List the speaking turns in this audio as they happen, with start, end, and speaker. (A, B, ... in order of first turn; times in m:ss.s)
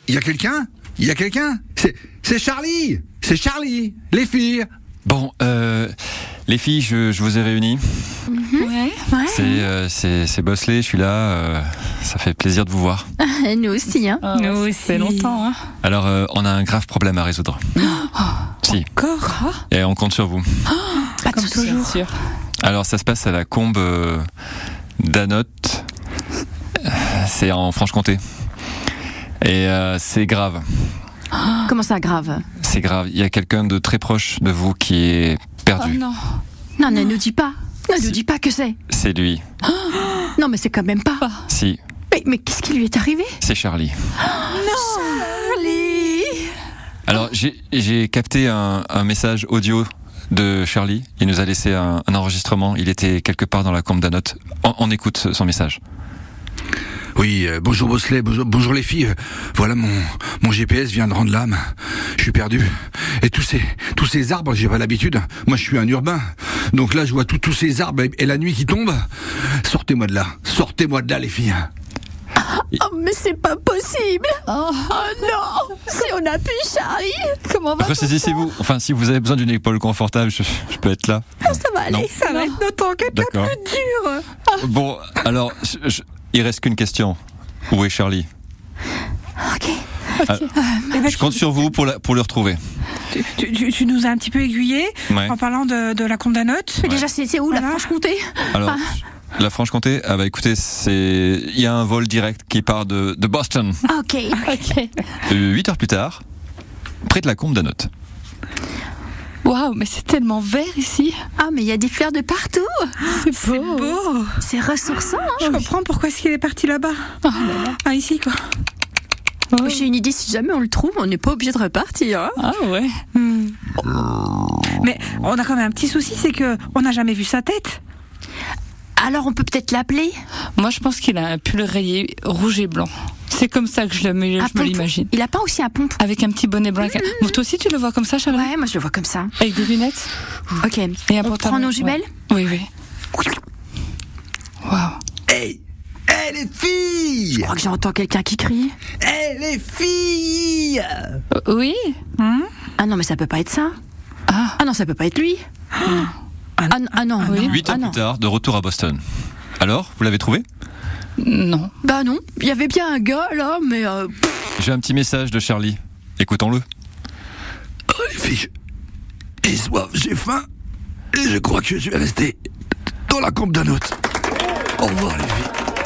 0:00.1-0:04.7 A
0:05.0-0:06.0 B
0:06.5-0:08.2 B
0:08.3-0:09.6 C
0:08.6-0:09.0 D
0:09.3-0:13.1 B
0:13.2-0:14.2 C
0:14.2-0:15.6 D
0:14.3-0:15.4 E
0:15.8-0:17.9 B
0:17.8-0:18.5 D
0:18.6-0:18.9 B
0:19.0-0:19.5 E
0:19.7-0:20.4 B
0:20.8-0:22.1 D
0:21.2-0:22.0 C
0:22.6-0:24.2 B
0:25.0-0:25.9 B
0:26.8-0:28.2 B
0:29.4-0:30.9 B
0:31.6-0:32.4 C
0:32.6-0:36.0 B
0:35.8-0:36.2 D
0:36.8-0:38.8 C
0:38.9-0:39.4 B
0:40.3-0:41.3 C
0:41.5-0:41.8 B
0:42.1-0:43.4 C
0:43.4-0:44.0 B
0:44.2-0:46.5 C
0:47.1-0:55.8 B
0:57.2-1:01.7 A
1:02.2-1:11.7 A
1:12.4-1:17.4 C
1:14.5-1:15.0 D
1:17.4-1:18.5 D
1:17.8-1:22.1 B
1:21.4-1:22.2 C
1:22.2-1:24.3 E
1:22.3-1:22.6 D
1:23.1-1:23.6 B
1:24.6-1:27.2 B
1:27.7-1:28.3 B
1:29.4-1:29.8 C
1:30.2-1:30.5 B
1:30.4-1:31.1 C
1:30.9-1:31.4 E
1:31.1-1:32.6 B
1:33.1-1:36.9 E
1:35.1-1:35.4 B
1:36.9-1:38.9 C
1:37.5-1:37.9 E
1:38.5-1:43.8 B
1:43.9-1:44.4 C
1:44.5-1:44.9 D
1:45.3-1:46.2 B
1:47.0-1:47.9 B
1:49.4-1:51.2 D
1:51.4-1:53.0 C
1:53.0-1:54.4 E
1:53.1-1:54.0 D
1:54.4-1:55.6 C
1:55.4-1:57.0 E
1:57.2-1:57.8 D
1:57.7-1:58.4 E
1:59.5-1:59.8 D
1:59.6-2:02.4 C
2:02.4-2:03.0 D
2:03.2-2:03.6 E
2:04.8-2:07.8 E
2:09.0-2:10.2 C
2:10.6-2:15.1 D
2:14.4-2:16.0 C
2:16.0-2:18.5 D
2:16.8-2:17.4 C
2:18.3-2:19.3 C
2:19.4-2:20.1 D
2:20.6-2:22.1 C
2:21.1-2:22.7 D
2:24.6-2:25.0 D
2:25.3-2:27.5 A
2:27.4-2:28.8 C
2:29.0-2:31.2 A
2:31.4-2:32.0 D
2:32.2-2:32.5 E
2:32.8-2:33.8 C
2:34.3-2:34.6 D
2:34.6-2:35.4 C
2:35.8-2:36.1 E
2:36.6-2:37.5 E
2:36.7-2:38.0 C
2:37.2-2:37.5 D
2:37.4-2:39.0 B
2:39.6-2:40.4 B
2:41.2-2:41.7 D
2:41.8-2:44.5 C
2:44.6-2:46.6 B
2:47.9-2:48.5 A
2:49.4-2:50.5 A
2:51.1-2:52.4 A
2:53.1-2:54.0 A
2:54.8-2:55.5 A